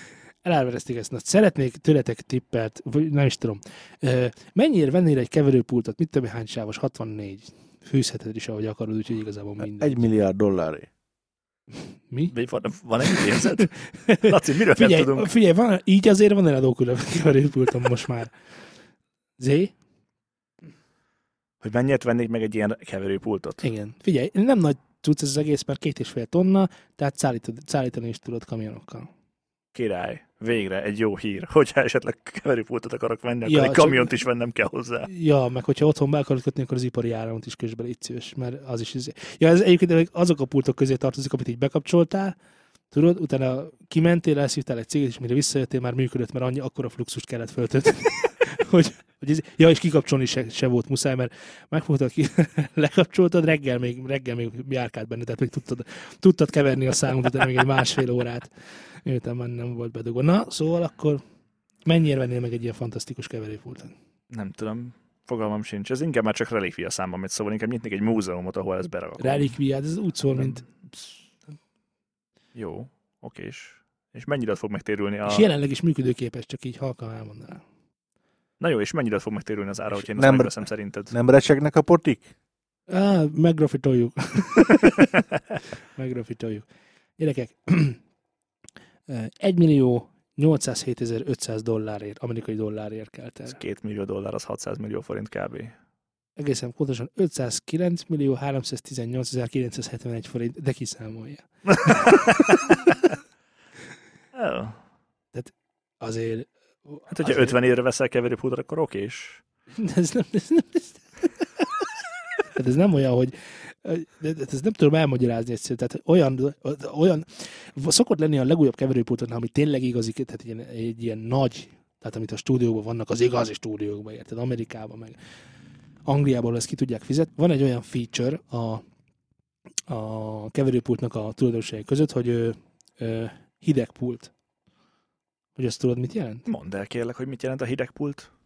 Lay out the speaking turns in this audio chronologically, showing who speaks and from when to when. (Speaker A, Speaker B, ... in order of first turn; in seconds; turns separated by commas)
Speaker A: 0.4-10.0, Speaker B: 9.6-10.9, Speaker C: 12.3-15.3, Speaker A: 13.1-18.3, Speaker A: 19.4-19.7, Speaker C: 21.6-23.6, Speaker A: 23.6-29.1, Speaker C: 29.7-35.1, Speaker A: 33.5-34.1, Speaker A: 35.0-42.4, Speaker A: 42.9-58.5, Speaker A: 59.0-61.2, Speaker A: 61.9-63.9, Speaker C: 64.3-69.5, Speaker A: 69.2-70.7, Speaker C: 72.5-75.5, Speaker A: 75.2-77.6, Speaker C: 78.6-81.1, Speaker B: 80.1-82.3, Speaker A: 82.9-85.2, Speaker A: 86.0-86.7, Speaker A: 87.2-88.0, Speaker A: 89.1-93.6, Speaker C: 93.5-95.7, Speaker A: 96.4-102.5, Speaker C: 101.8-103.0, Speaker C: 104.3-104.8, Speaker A: 105.3-107.6, Speaker C: 107.1-109.4, Speaker A: 109.8-111.2, Speaker A: 112.5-125.2, Speaker A: 126.1-128.8, Speaker A: 129.9-134.3, Speaker A: 135.6-136.4, Speaker C: 136.5-138.3